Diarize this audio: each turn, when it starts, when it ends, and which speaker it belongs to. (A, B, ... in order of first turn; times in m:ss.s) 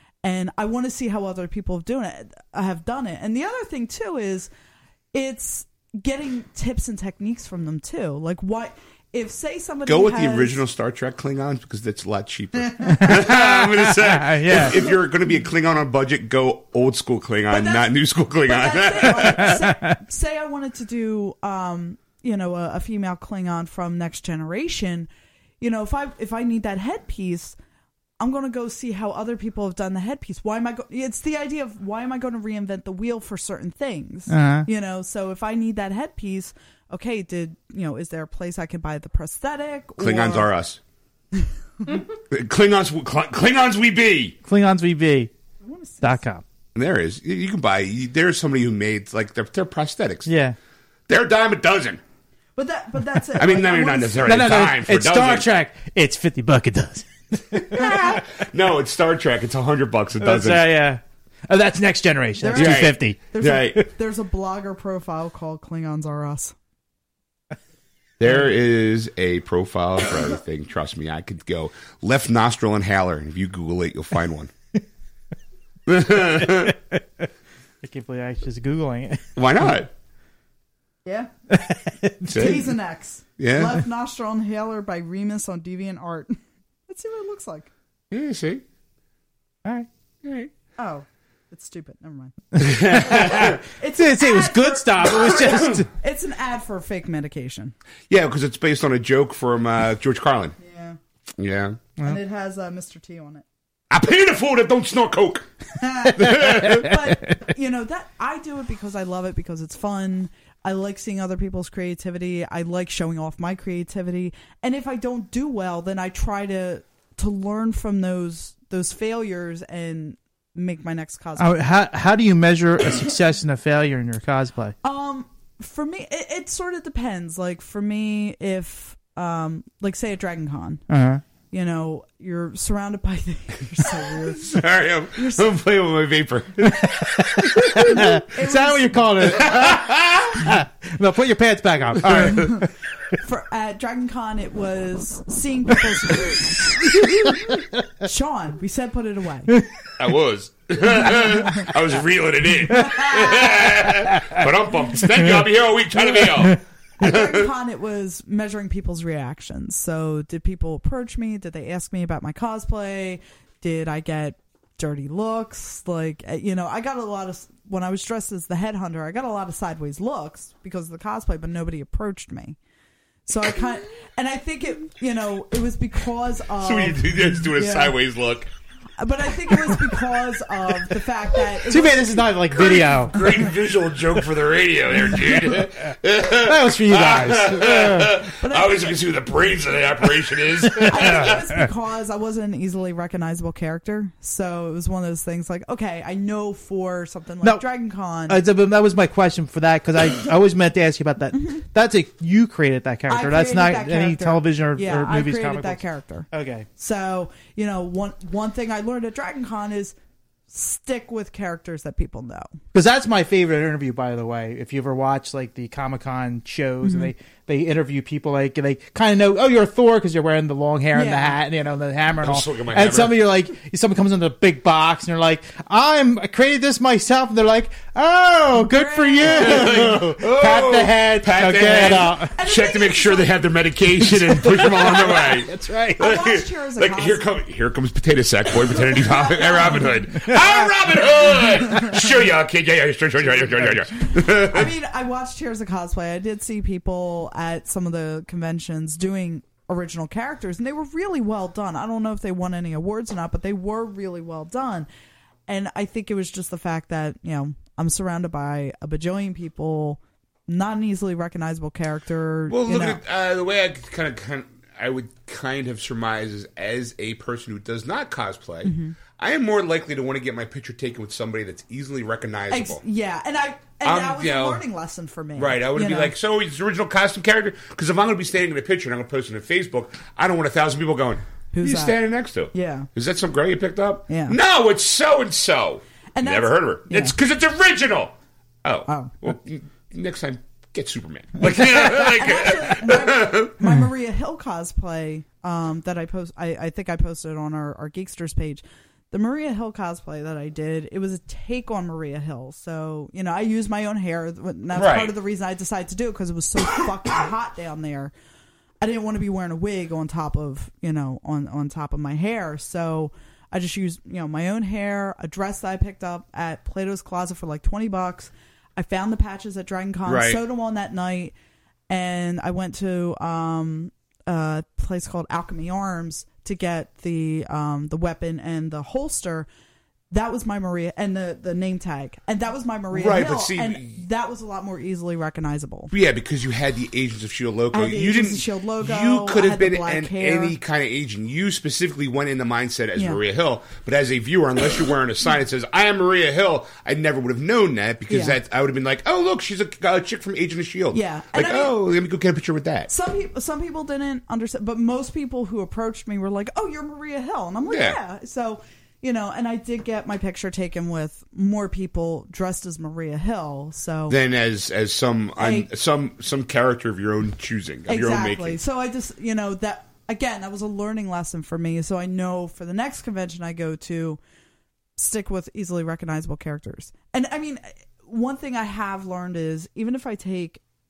0:00.2-0:04.5 A
0:05.1-0:10.6 A
0:09.9-0:19.6 B
0:12.8-0:13.0 A
0:12.9-0:14.9 C
0:17.5-0:17.9 A
0:18.4-0:25.1 A
0:19.4-0:19.9 C
0:25.6-0:27.6 A
0:28.2-0:40.5 A
0:34.3-0:34.7 C
0:40.0-0:40.8 B
0:42.2-0:44.4 B
0:44.4-0:45.3 C
0:45.6-0:46.2 A
0:46.0-0:46.4 C
0:46.8-0:50.3 B
0:50.3-0:50.6 C
0:51.1-0:52.0 B
0:52.6-0:54.5 A
0:53.4-0:55.5 B
0:54.2-0:58.2 C
0:57.6-1:00.8 B
1:00.2-1:03.2 C
1:02.4-1:06.6 A
1:02.6-1:03.8 B
1:08.2-1:14.5 B
1:15.9-1:16.8 B
1:17.8-1:19.2 C
1:19.4-1:19.9 B
1:21.0-1:21.3 A
1:21.9-1:22.6 C
1:22.3-1:22.7 B
1:22.3-1:27.7 A
1:23.4-1:23.8 B
1:28.1-1:28.6 B
1:30.2-1:30.5 B
1:30.8-1:32.4 A
1:32.6-1:35.9 C
1:32.6-1:33.6 B
1:32.9-1:37.7 A
1:38.1-1:40.6 B
1:40.6-1:41.0 A
1:41.4-1:41.8 B
1:42.0-1:43.4 A
1:43.9-1:45.5 B
1:45.8-2:01.6 A
1:46.1-1:47.0 B
1:46.4-1:46.8 C
2:01.4-2:04.7 C
2:04.8-2:10.8 A
2:10.9-2:11.2 C
2:11.5-2:14.6 A
2:14.3-2:18.2 B
2:15.1-2:15.5 A
2:17.5-2:22.7 C
2:18.3-2:19.1 A
2:19.2-2:20.6 B
2:22.1-2:22.4 B
2:22.2-2:29.6 A
2:30.0-2:37.5 B
2:37.0-2:52.6 A
2:53.3-2:58.0 A
2:56.6-2:58.5 B
2:59.0-3:03.2 A
3:01.7-3:03.3 C
3:02.5-3:11.4 B
3:06.4-3:08.2 C
3:08.4-3:08.9 A
3:10.8-3:18.4 A
3:18.3-3:26.7 C
3:23.1-3:30.0 A
3:30.5-3:32.5 A
3:32.7-3:52.3 C
3:36.8-3:37.1 A
3:40.9-3:41.4 A
3:42.2-3:43.2 B
3:48.5-3:49.9 A
3:49.2-4:04.7 B
3:52.3-3:53.3 A
3:54.4-3:56.0 C
3:56.0-3:57.2 A
3:59.1-3:59.8 A
4:04.2-4:14.9 A
4:15.5-4:23.0 A
4:22.5-4:32.8 B
4:28.6-4:29.0 A
4:32.5-4:36.1 A
4:33.8-4:34.6 B
4:35.4-4:53.6 B
4:41.5-4:42.9 A
4:44.1-4:44.4 A
4:46.2-4:47.2 A
4:48.9-4:49.1 A
4:51.4-5:08.1 A
5:04.8-5:05.2 B
5:08.8-5:21.3 A
5:20.0-5:20.4 B
5:21.9-5:29.5 A
5:30.1-5:35.9 A
5:32.9-5:34.0 B
5:35.9-5:52.9 B
5:37.7-5:40.6 A
5:48.1-5:48.4 A
5:50.9-5:51.8 A
5:52.9-6:04.2 A
5:57.7-5:58.0 B
6:04.1-6:08.6 B
6:05.4-6:05.7 A
6:07.9-6:14.2 A
6:15.0-6:20.6 A